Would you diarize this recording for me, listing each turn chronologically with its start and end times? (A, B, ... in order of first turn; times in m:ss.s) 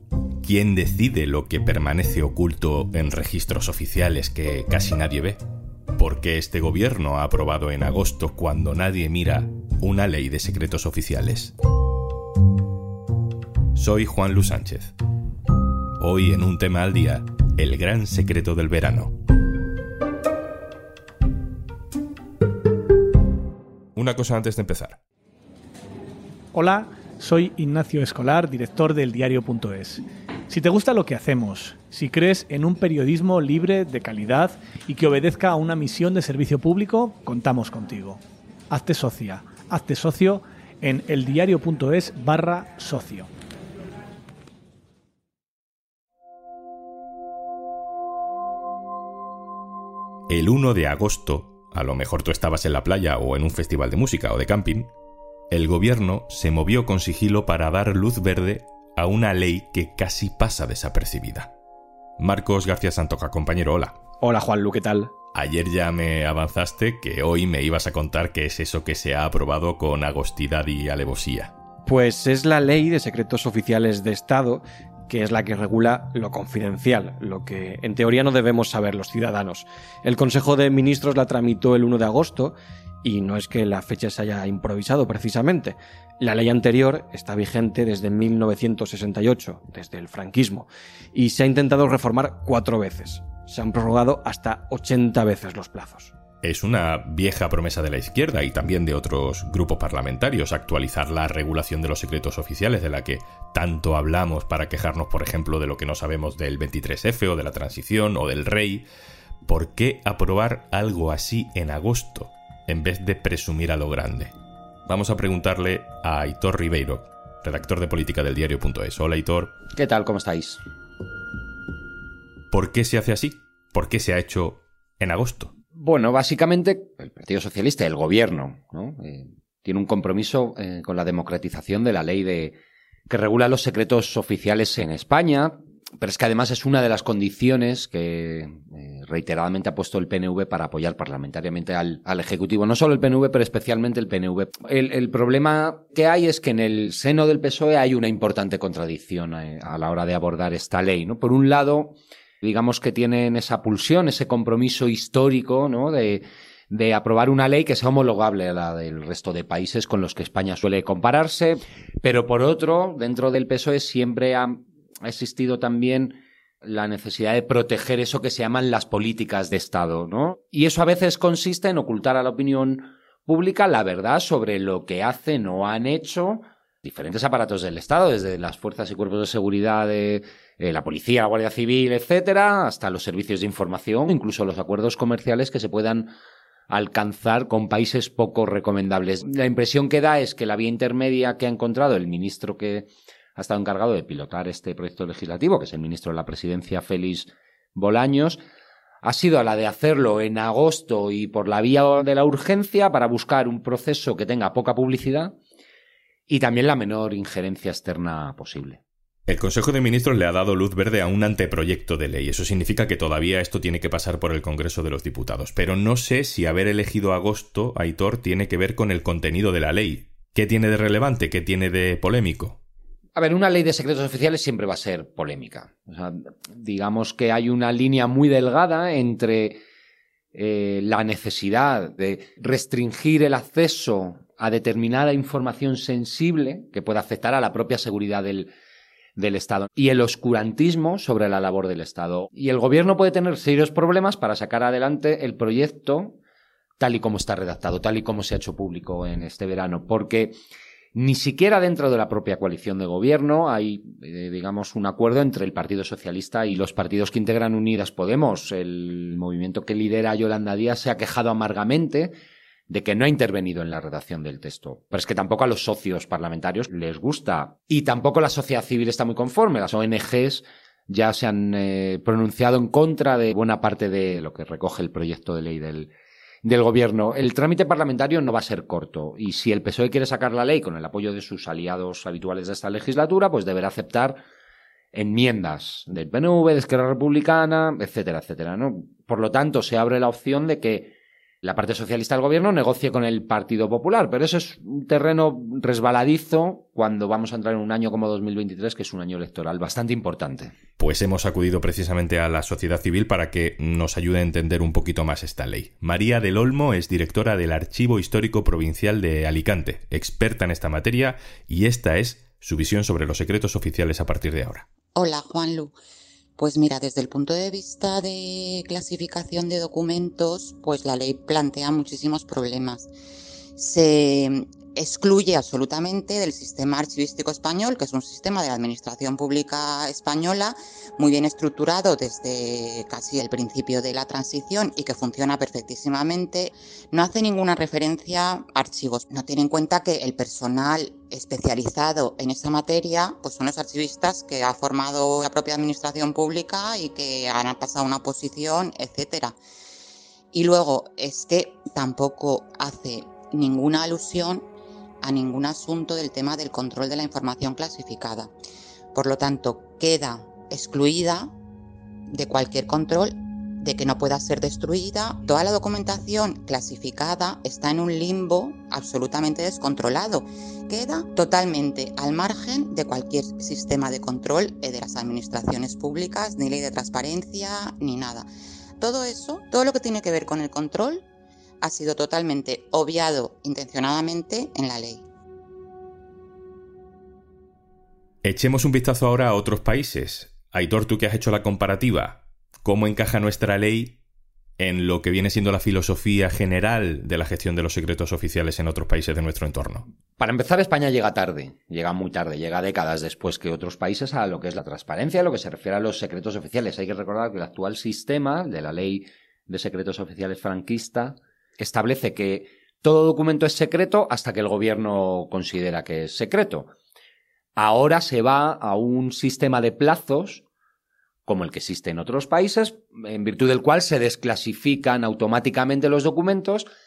0:00.4-0:05.4 A
0:06.0-0:11.5 A
0:13.8-0:14.9 A
0:16.0-0:19.2 A
0:24.0-0:25.0 A
0:26.5-0:38.2 B
0:38.7-0:43.3 B
0:50.3-0:54.9 A
0:55.5-1:01.5 A
1:02.2-1:04.0 A
1:04.2-1:05.1 C
1:05.3-1:11.5 A
1:11.8-1:36.1 C
1:36.4-1:48.8 A
1:49.4-1:54.3 A
1:54.9-1:59.6 A
1:59.8-2:00.6 D
2:02.5-2:05.5 A
2:05.8-2:12.6 D
2:13.1-3:06.1 D
3:06.7-3:18.4 D
3:19.0-3:25.4 D
3:26.3-3:28.8 D
3:29.3-3:42.6 A
3:43.2-3:49.6 D
3:50.3-3:58.5 D
3:59.2-4:06.2 D
4:06.8-4:10.3 D
4:11.0-4:22.1 D
4:22.7-4:35.9 D
4:36.4-4:44.2 D
4:44.9-5:00.6 D
5:00.8-5:14.7 A
5:15.0-5:15.8 E
5:16.4-5:22.9 E
5:23.6-5:49.4 E
5:50.3-5:54.4 E
5:55.0-5:58.3 E
5:58.9-6:01.3 E
6:02.1-6:18.3 E
6:18.8-6:21.0 E
6:21.6-6:25.0 E
6:28.2-6:34.0 A
6:34.6-6:39.8 A
6:40.2-6:56.7 D
6:57.6-7:00.4 D
7:01.3-7:06.7 D